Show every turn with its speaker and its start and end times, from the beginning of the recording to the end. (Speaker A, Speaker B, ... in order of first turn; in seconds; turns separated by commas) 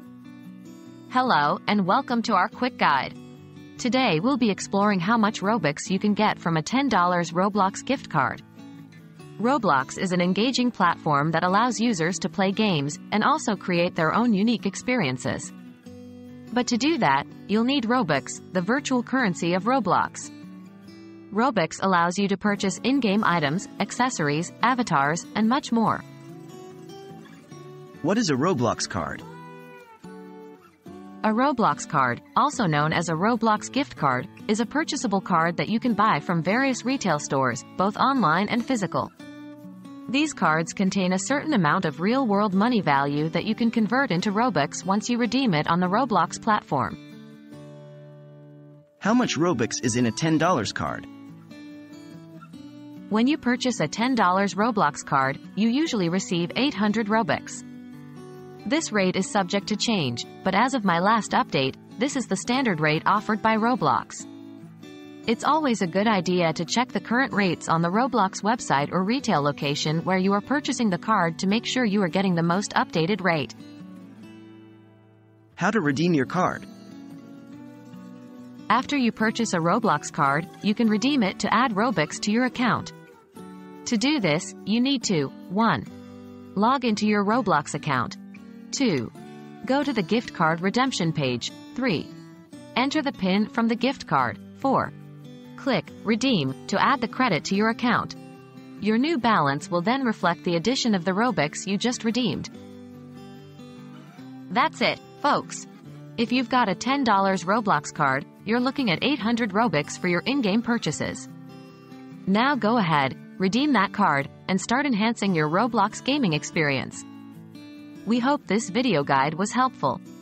Speaker A: 1.1-3.1, Speaker A: 3.8-8.4, Speaker A: 9.4-15.5, Speaker A: 16.5-20.3, Speaker A: 21.3-26.0, Speaker B: 28.0-29.2, Speaker A: 31.2-39.1, Speaker A: 40.1-47.0, Speaker B: 49.0-51.1, Speaker A: 53.1-57.6, Speaker A: 58.6-64.2, Speaker A: 65.2-73.5, Speaker B: 75.6-76.7, Speaker A: 78.7-82.9, Speaker A: 83.8-85.9, Speaker A: 86.5-88.2, Speaker A: 88.7-92.1, Speaker A: 92.7-94.9, Speaker A: 95.5-98.2, Speaker A: 98.8-102.5, Speaker A: 104.5-105.7, Speaker A: 106.2-111.3, Speaker A: 112.3-117.0, Speaker A: 118.0-120.0